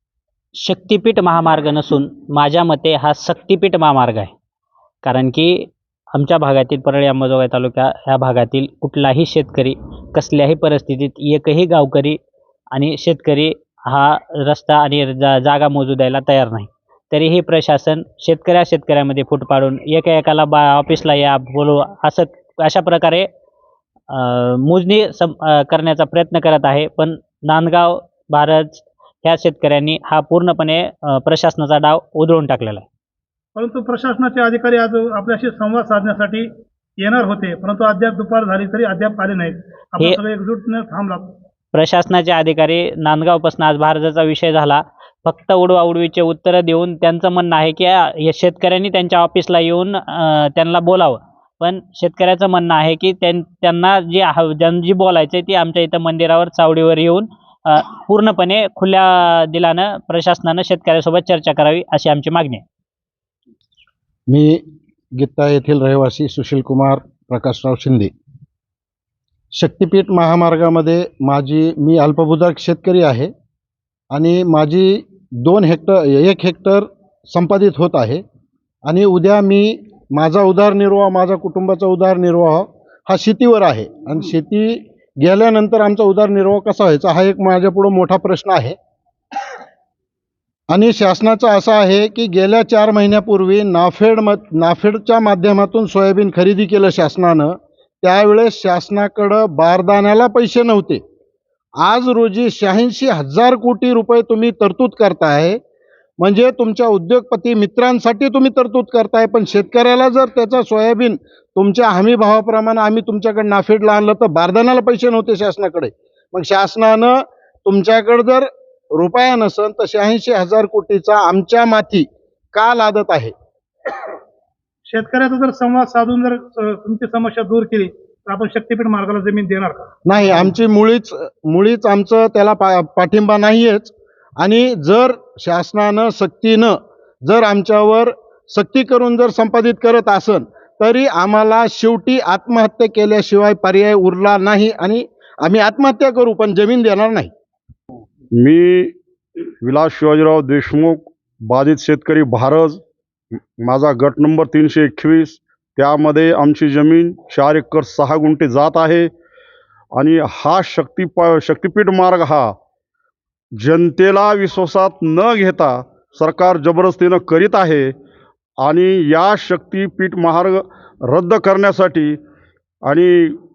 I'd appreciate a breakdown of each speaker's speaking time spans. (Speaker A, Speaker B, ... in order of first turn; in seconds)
Speaker A: 0.6-4.3, 5.0-12.2, 12.7-23.3, 24.1-32.9, 41.7-62.6
Speaker B: 33.6-36.5, 37.0-41.4, 124.9-129.9
Speaker C: 64.3-64.6, 65.2-68.1, 69.5-73.3, 74.1-78.2, 78.9-88.8, 90.7-101.0, 101.8-105.6, 106.2-123.3, 130.1-147.3
Speaker D: 148.4-152.8, 153.6-159.1, 160.0-162.6, 163.6-167.9, 168.6-172.2, 172.9-173.4